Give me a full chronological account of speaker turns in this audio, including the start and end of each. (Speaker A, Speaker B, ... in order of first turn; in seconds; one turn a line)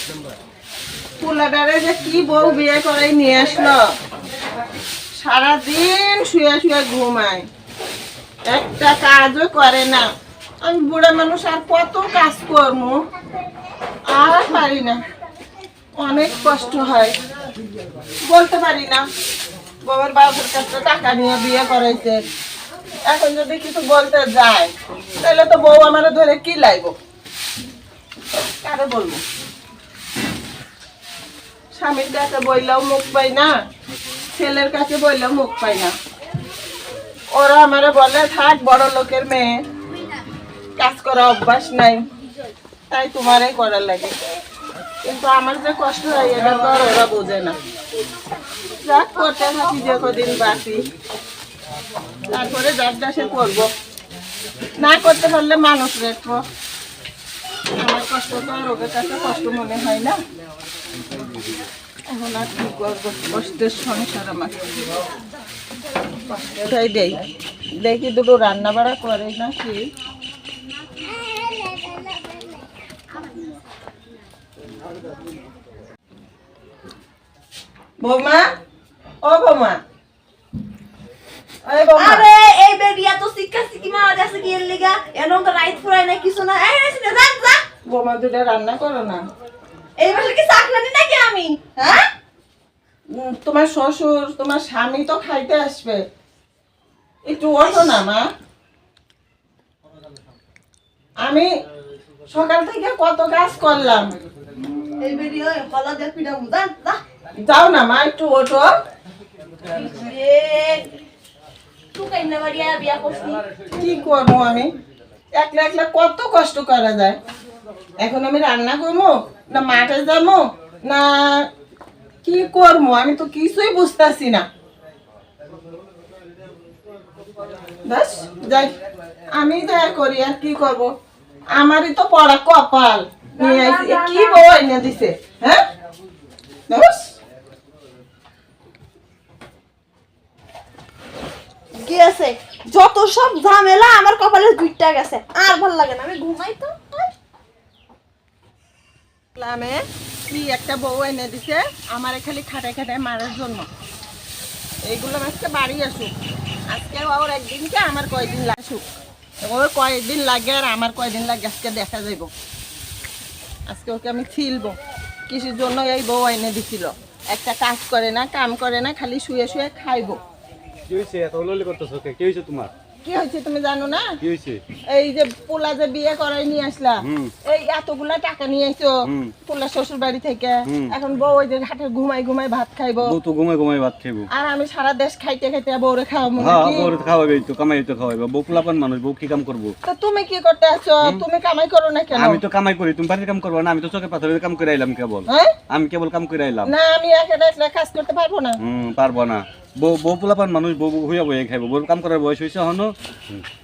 Speaker A: 1.2-3.8
Speaker A: 5.2-7.5
Speaker A: 8.5-10.1
Speaker A: 10.6-13.0
Speaker A: 14.1-15.0
Speaker A: 16.0-17.1
Speaker A: 18.2-19.0
Speaker A: 19.8-22.2
Speaker A: 23.1-26.9
Speaker A: 28.6-29.2
Speaker A: 31.7-33.5
Speaker A: 34.4-35.9
Speaker A: 37.3-39.6
Speaker A: 40.8-42.0
Speaker A: 42.9-44.1
Speaker A: 45.0-47.6
Speaker A: 48.7-50.9
Speaker A: 52.3-53.7
Speaker A: 54.8-56.4
Speaker A: 57.8-60.2
Speaker A: 62.1-64.6
Speaker A: 66.3-67.2
Speaker A: 67.8-69.9
Speaker A: 78.0-78.5
Speaker A: 79.2-79.8
Speaker A: 81.6-82.2
Speaker B: 81.9-87.6
Speaker A: 87.8-89.2
Speaker B: 90.0-92.1
Speaker A: 93.1-96.0
Speaker A: 97.3-98.3
Speaker A: 101.2-101.5
Speaker A: 102.3-104.1
Speaker B: 105.0-107.0
Speaker A: 107.4-108.7
Speaker B: 109.7-110.9
Speaker B: 111.9-113.4
Speaker A: 113.8-114.7
Speaker A: 115.3-117.2
Speaker A: 118.0-121.5
Speaker A: 122.2-124.5
Speaker A: 127.9-128.7
Speaker A: 129.3-130.9
Speaker A: 131.5-135.6
Speaker B: 133.4-134.4
Speaker A: 136.7-137.1
Speaker B: 141.8-147.0
Speaker A: 149.3-153.7
Speaker A: 154.8-156.1
Speaker A: 156.7-158.8
Speaker A: 159.4-162.3
Speaker A: 163.7-164.8
Speaker A: 165.3-170.2
Speaker C: 170.9-172.7
Speaker A: 173.0-174.2
Speaker C: 174.2-174.6
Speaker A: 174.9-183.1
Speaker C: 177.0-177.3
Speaker C: 179.1-179.3
Speaker C: 180.7-180.9
Speaker C: 183.1-184.3
Speaker A: 184.3-186.9
Speaker C: 186.4-189.7
Speaker A: 189.8-192.4
Speaker C: 192.1-196.7
Speaker A: 195.3-195.5
Speaker A: 196.7-198.6
Speaker C: 198.6-203.4